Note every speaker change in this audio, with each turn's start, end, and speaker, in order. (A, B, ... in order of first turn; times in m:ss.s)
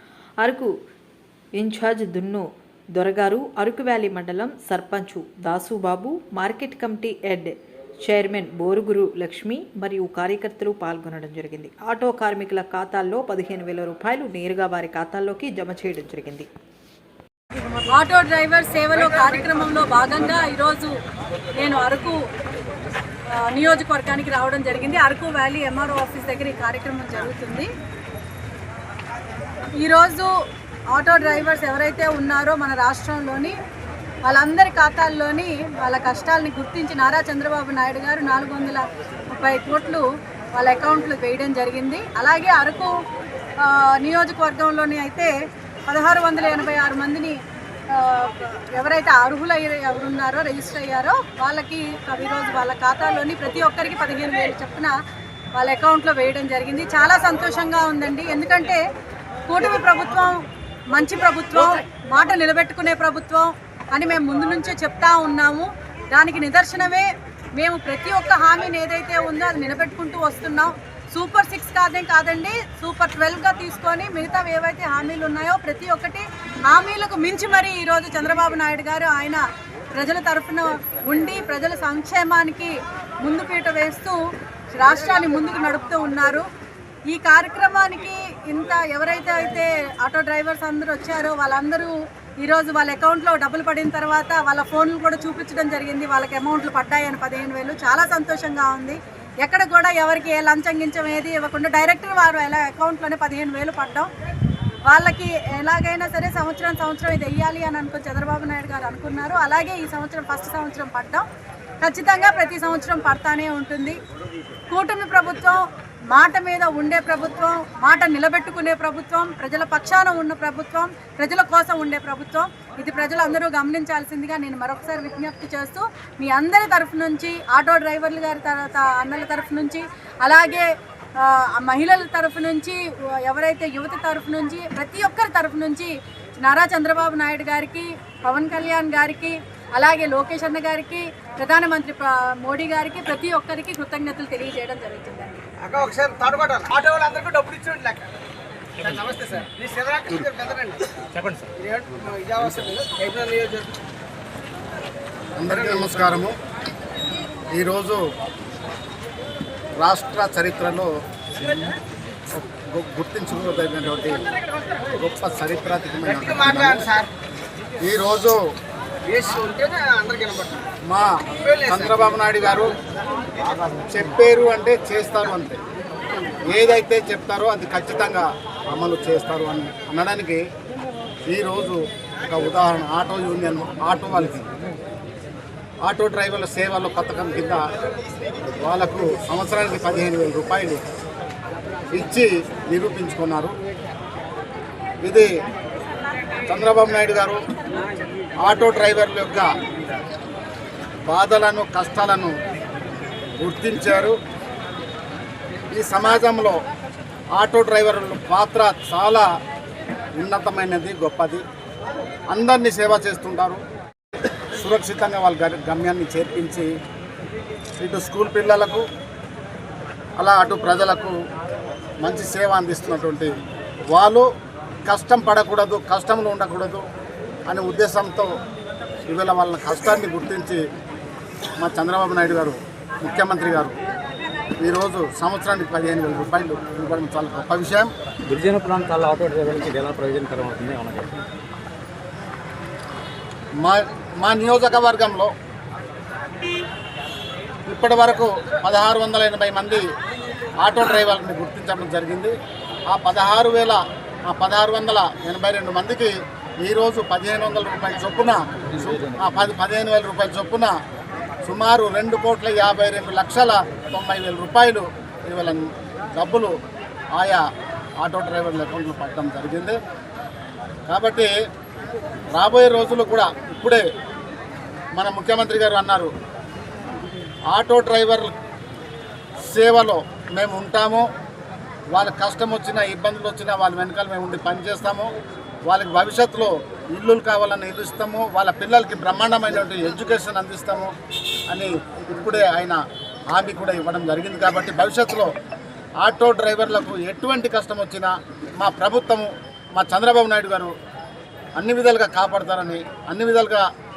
0:00.4-0:00.7 A
0:01.6-0:16.5 A
0:17.9-0:21.0 B
0:21.6-0:22.2 B
0:23.3-0:27.7 B
0:29.8-0:30.3 B
0:30.9-0:33.6 B
0:34.3-0:40.0 B
0:40.6-0:42.9 B
0:43.6-0:45.3 B
0:45.9-0:47.4 B
0:47.9-0:55.0 B
0:55.6-0:58.8 B
0:59.5-1:24.2 B
1:24.7-1:26.5 B
1:27.1-1:44.1 B
1:44.9-1:51.3 B
1:51.8-1:54.0 B
1:54.7-2:25.4 B
2:25.6-2:28.1 C
2:28.8-2:33.8 C
2:31.1-2:31.5 D
2:35.4-2:36.4 E
2:37.5-2:38.1 E
2:39.8-2:40.9 E
2:42.4-2:44.2 E
2:44.9-2:46.9 E
2:46.3-2:47.1 C
2:47.8-2:48.4 E
2:49.1-2:50.6 C
2:50.9-2:52.7 E
2:51.4-2:52.0 C
2:53.5-2:55.6 E
2:56.5-3:00.4 E
3:01.3-3:04.5 E
3:05.8-3:07.6 E
3:08.5-3:10.8 E
3:11.9-3:13.5 E
3:15.0-3:15.3 E
3:16.5-3:17.4 E
3:18.4-3:19.5 E
3:21.1-3:22.3 E
3:23.4-3:24.2 E
3:25.7-3:26.6 E
3:27.4-3:29.3 E
3:30.2-3:31.4 E
3:32.3-3:33.6 E
3:34.6-3:36.7 E
3:37.8-3:38.8 E
3:40.2-3:41.2 E
3:42.0-3:43.3 E
3:43.9-3:44.3 E
3:44.9-3:46.8 E
3:47.5-3:48.3 E
3:49.1-3:50.6 E
3:51.6-3:53.8 E
3:54.6-3:57.9 E
3:58.3-4:01.1 D
4:03.6-4:05.3 E
4:07.7-4:09.8 E
4:10.6-4:12.3 E
4:12.9-4:20.8 E
4:21.4-4:26.6 E
4:27.1-4:27.4 E
4:28.0-4:29.8 E
4:30.9-4:31.3 E
4:32.3-4:33.8 E
4:35.0-4:36.1 E
4:37.5-4:38.3 E
4:39.5-4:41.1 E
4:41.9-4:45.1 E
4:45.7-4:50.9 E
4:51.5-4:55.3 E
4:56.0-5:00.7 E
5:01.6-5:03.7 E